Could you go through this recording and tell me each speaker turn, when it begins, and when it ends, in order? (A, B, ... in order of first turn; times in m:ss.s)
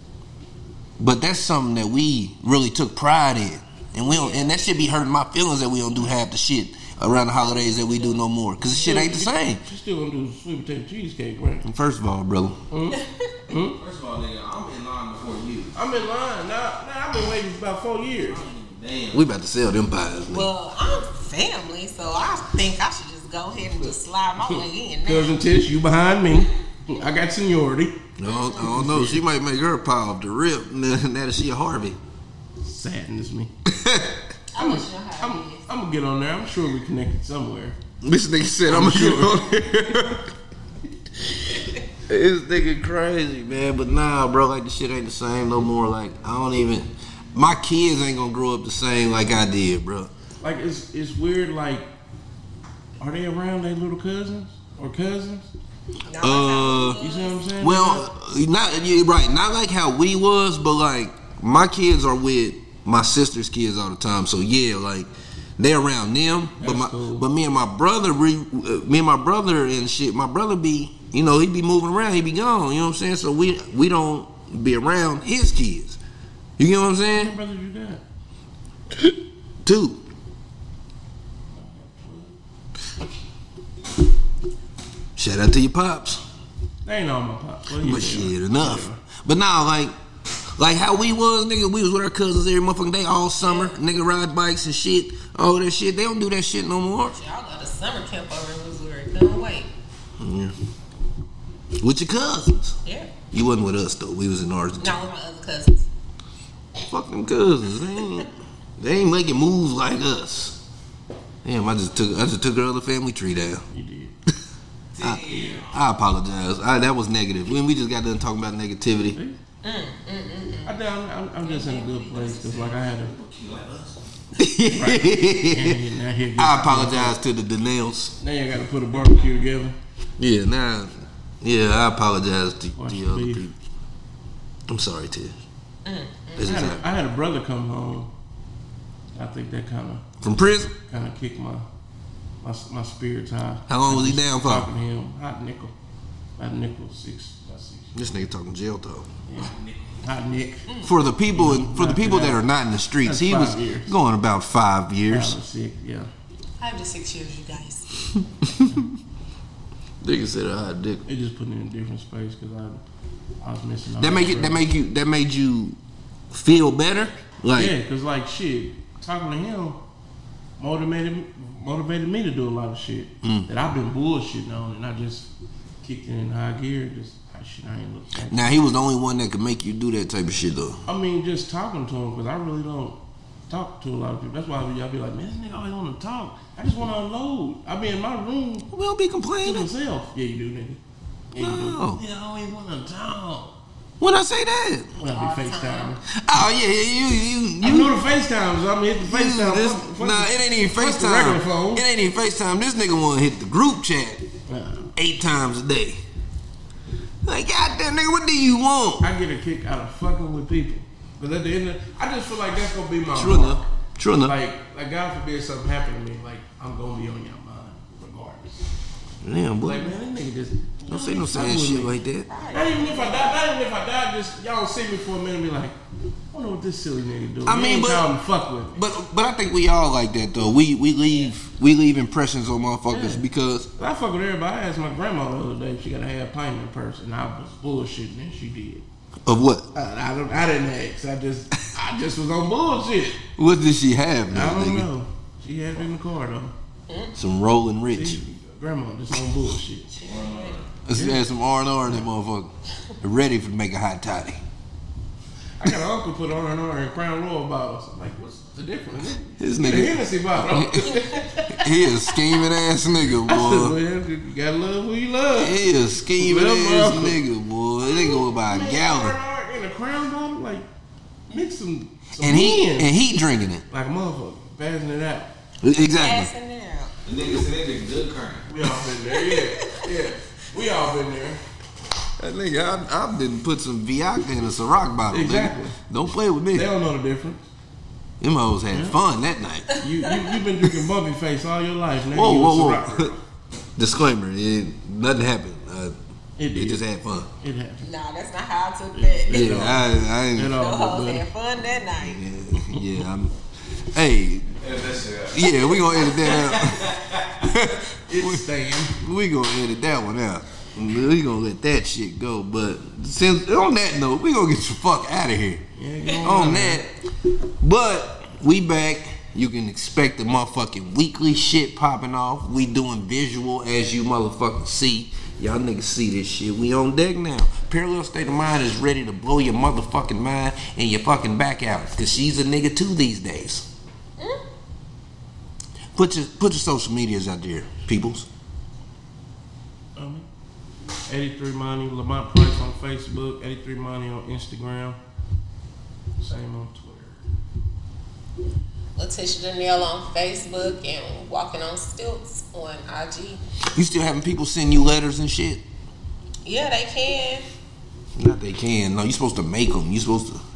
0:01.0-0:09.6 A
0:04.0-0:04.6 B
0:07.4-0:08.2 B
0:08.7-0:11.6 C
0:11.6-0:12.6 A
0:12.7-0:13.8 C
0:12.9-0:13.3 B
0:13.7-0:15.8 D
0:15.7-0:18.4 C
0:18.2-0:19.2 D
0:19.1-0:20.5 A
0:20.3-0:25.4 B
0:23.8-0:28.0 C
0:28.2-0:32.0 A
0:28.3-0:28.7 B
0:28.5-0:29.2 C
0:32.6-0:33.5 C
0:33.7-0:34.2 A
0:34.5-0:35.6 B
0:34.6-0:37.8 C
0:38.0-0:40.2 A
0:38.7-0:39.4 C
0:42.1-0:50.1 A
0:50.4-0:51.8 C
0:53.0-0:55.5 C
0:56.0-0:57.4 B
0:56.2-0:57.0 A
0:56.9-0:58.0 C
0:57.6-1:16.0 A
1:06.6-1:07.2 C
1:16.6-1:17.4 A
1:17.1-1:18.0 C
1:19.6-1:20.0 A
1:21.5-1:22.4 C
1:25.2-1:26.2 A
1:26.8-1:29.0 C
1:27.8-1:29.9 A
1:30.6-1:37.1 A
1:33.4-1:33.8 B
1:37.0-1:39.7 B
1:40.2-1:40.5 A
1:41.8-1:42.7 A
1:42.8-1:43.1 B
1:43.3-1:45.0 A
1:44.8-1:45.9 B
1:46.8-1:50.6 A
1:51.4-1:53.6 A
1:53.7-1:54.1 C
1:55.0-1:55.8 D
1:55.0-1:59.2 A
1:59.1-1:59.4 C
1:59.6-2:00.7 B
2:00.6-2:03.1 C
2:01.4-2:02.6 B
2:02.3-2:04.0 D
2:04.4-2:05.8 A
2:04.7-2:07.2 C
2:06.4-2:08.2 A
2:08.2-2:09.8 C
2:10.2-2:13.5 A
2:12.8-2:13.5 C
2:14.7-2:15.4 A
2:15.8-2:16.7 B
2:16.4-2:16.8 A
2:16.4-2:18.1 C
2:19.1-2:20.0 C
2:20.2-2:20.7 A
2:20.8-2:21.6 C
2:22.4-2:25.7 C
2:23.7-2:24.7 A
2:26.4-2:28.3 C
2:27.9-2:29.1 A
2:29.3-2:30.7 C
2:29.4-2:30.0 D
2:30.7-2:30.9 B
2:30.8-2:35.4 A
2:31.3-2:32.4 C
2:33.0-2:33.9 C
2:35.1-2:36.1 C
2:36.6-2:38.1 B
2:38.4-2:38.9 A
2:40.0-2:41.0 A
2:41.0-2:42.8 C
2:43.4-2:44.6 C
2:44.0-2:45.8 A
2:46.3-2:47.7 A
2:47.5-2:49.8 C
2:50.6-2:55.3 C
2:53.2-2:53.5 A
2:55.8-2:58.7 C
2:58.3-3:00.8 A
3:00.8-3:03.0 C
3:03.5-3:08.7 C
3:08.7-3:09.7 A
3:09.4-3:10.8 C
3:11.3-3:13.5 C
3:11.4-3:12.0 A
3:14.0-3:14.9 A
3:15.0-3:16.0 C
3:15.1-3:16.0 B
3:16.1-3:17.9 A
3:17.6-3:21.8 C
3:19.0-3:24.2 A
3:24.5-3:24.9 C
3:25.0-3:26.0 A
3:27.2-3:29.1 A
3:29.0-3:33.6 C
3:33.1-3:34.4 A
3:34.2-3:38.6 C
3:39.2-3:40.0 A
3:39.6-3:41.9 C
3:40.9-3:42.3 A
3:42.3-3:43.4 B
3:42.5-3:45.8 C
3:46.3-3:48.8 C
3:47.4-3:48.1 A
3:48.7-3:53.7 A
3:52.9-3:53.2 C
3:53.8-3:58.8 C
3:59.2-3:59.7 A
3:59.7-4:03.2 C
4:03.4-4:04.9 A
4:04.3-4:06.5 C
4:06.9-4:07.1 B
4:07.1-4:08.2 A
4:07.9-4:10.0 C
4:10.0-4:10.8 D
4:10.1-4:10.5 B
4:10.8-4:14.4 A
4:10.9-4:11.2 C
4:15.6-4:22.1 C
4:19.4-4:20.9 A
4:20.9-4:21.2 B
4:21.5-4:23.8 A
4:23.2-4:27.2 C
4:25.4-4:29.2 A
4:27.9-4:28.2 B
4:28.2-4:30.6 C
4:31.3-4:33.1 C
4:32.2-4:33.6 A
4:33.7-4:35.3 C
4:35.6-4:36.3 A
4:35.8-4:36.9 B
4:37.0-4:38.5 D
4:38.5-4:41.4 C
4:42.2-4:46.7 A
4:45.1-4:45.8 C
4:46.5-4:47.4 C
4:48.2-4:49.7 A
4:48.7-4:49.0 C
4:49.7-4:53.2 C
4:52.1-4:53.1 A
4:53.8-4:55.9 A
4:56.4-4:56.8 C
4:56.5-4:57.3 A
4:57.4-4:57.9 C
4:57.8-4:59.9 B
4:58.9-5:01.3 C
4:59.3-5:00.6 A
5:00.5-5:02.2 B
5:02.0-5:03.3 A
5:02.6-5:02.9 C
5:03.9-5:04.5 A
5:04.6-5:07.4 D
5:05.3-5:15.6 A
5:05.4-5:06.5 B
5:08.1-5:09.0 C
5:15.8-5:16.8 C
5:16.2-5:17.0 A
5:17.6-5:33.7 A
5:34.2-5:34.4 B
5:36.0-5:38.3 A
5:40.0-5:40.3 C
5:41.1-5:45.0 C
5:46.2-5:47.2 C
5:49.0-5:53.4 B
5:53.7-5:55.6 A
5:56.4-5:57.5 B
5:58.2-6:00.4 A